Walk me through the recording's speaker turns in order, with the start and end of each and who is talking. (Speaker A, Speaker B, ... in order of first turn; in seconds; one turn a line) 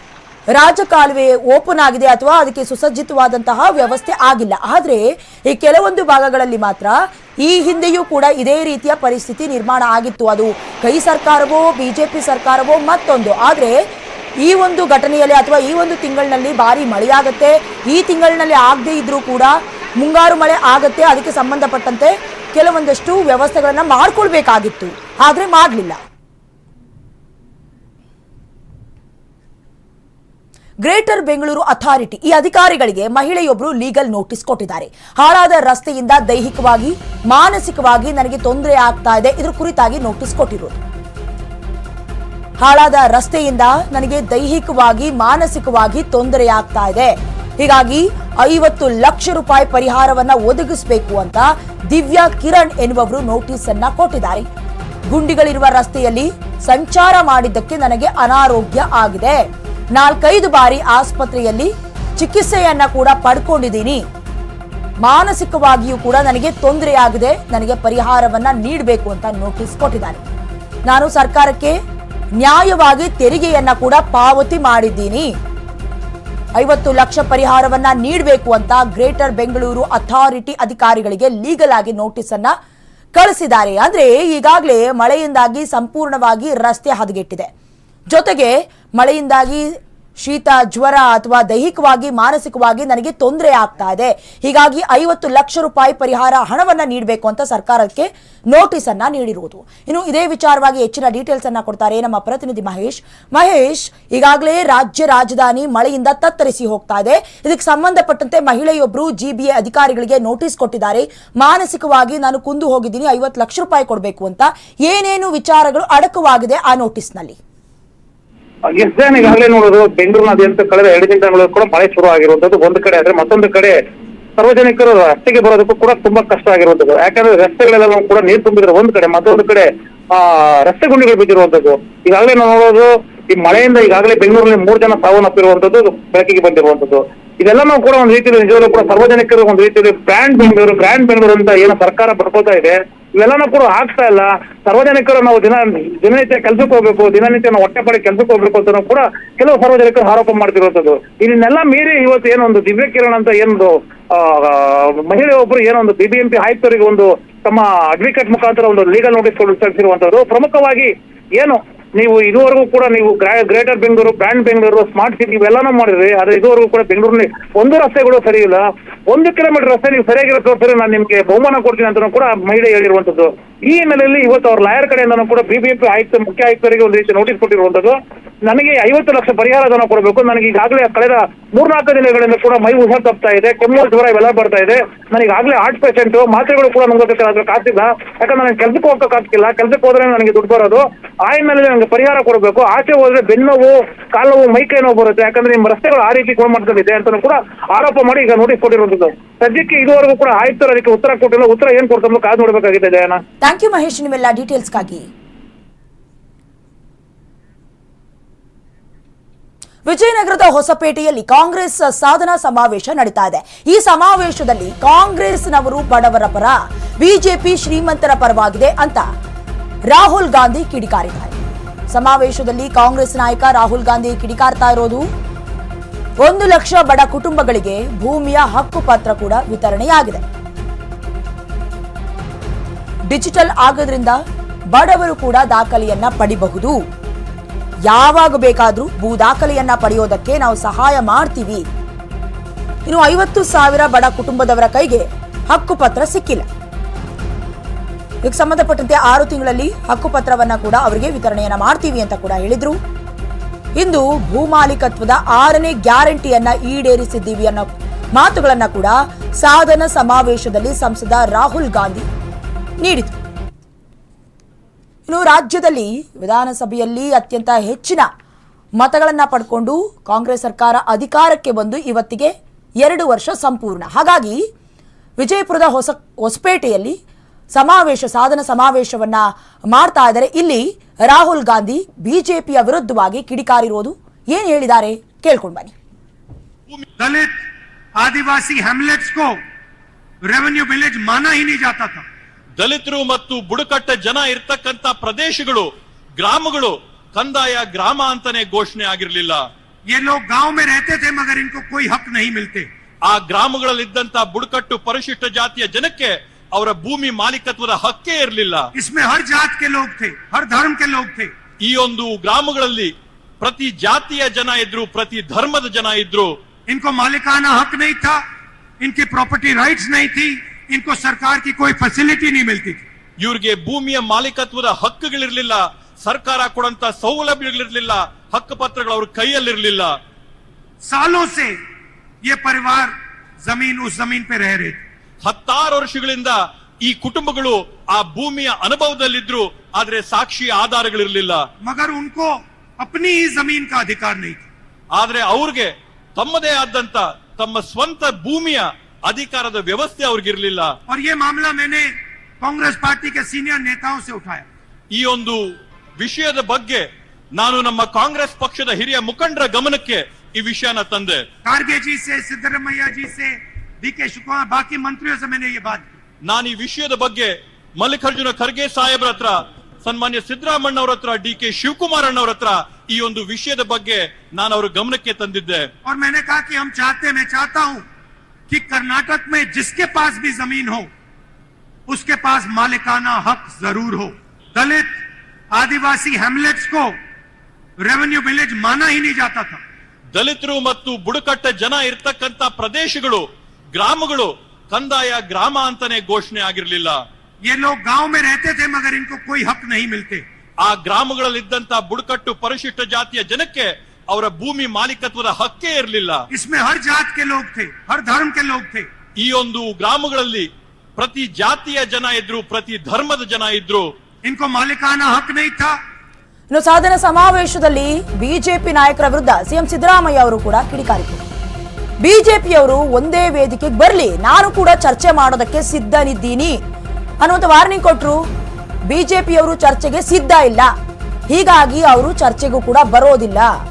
Speaker A: 0.5-13.8
Speaker A: 14.4-26.0
Speaker A: 30.8-40.8
Speaker A: 42.6-54.5
Speaker A: 55.1-59.4
Speaker A: 59.9-64.0
Speaker A: 65.0-70.2
Speaker A: 70.9-71.8
Speaker A: 72.4-75.3
Speaker A: 76.6-82.5
Speaker A: 83.1-87.5
Speaker A: 88.1-117.4
Speaker B: 118.7-123.8
Speaker B: 124.4-203.2
Speaker A: 203.4-205.1
Speaker A: 209.8-219.1
Speaker A: 219.9-221.4
Speaker A: 221.9-225.1
Speaker A: 226.2-230.2
Speaker A: 233.1-234.2
Speaker A: 234.7-236.8
Speaker A: 237.9-241.6
Speaker A: 242.8-246.5
Speaker A: 248.2-252.8
Speaker A: 253.8-262.1
Speaker A: 262.8-263.2
Speaker A: 265.1-268.1
Speaker A: 268.8-274.4
Speaker A: 275.2-277.0
Speaker A: 277.5-285.7
Speaker C: 287.0-287.4
Speaker C: 288.0-289.4
Speaker C: 290.3-292.0
Speaker D: 292.6-299.5
Speaker C: 299.9-302.7
Speaker D: 303.1-308.7
Speaker C: 308.8-311.3
Speaker D: 311.6-316.4
Speaker C: 316.7-318.2
Speaker C: 318.8-322.9
Speaker D: 323.2-330.0
Speaker C: 330.8-331.6
Speaker C: 332.2-332.9
Speaker C: 333.4-334.8
Speaker D: 335.2-341.4
Speaker C: 341.6-344.5
Speaker D: 344.9-350.7
Speaker C: 350.9-354.5
Speaker D: 354.9-355.5
Speaker D: 356.0-361.2
Speaker C: 361.4-366.0
Speaker D: 366.2-375.7
Speaker C: 375.8-377.8
Speaker C: 378.5-380.9
Speaker C: 381.9-385.0
Speaker C: 385.5-386.9
Speaker C: 387.8-389.6
Speaker D: 390.1-397.0
Speaker C: 397.5-400.2
Speaker D: 400.6-406.2
Speaker C: 406.3-408.9
Speaker D: 409.2-413.9
Speaker C: 414.2-415.8
Speaker A: 416.5-421.2
Speaker A: 422.0-426.6
Speaker A: 427.2-428.2
Speaker A: 428.9-430.7
Speaker A: 431.3-433.5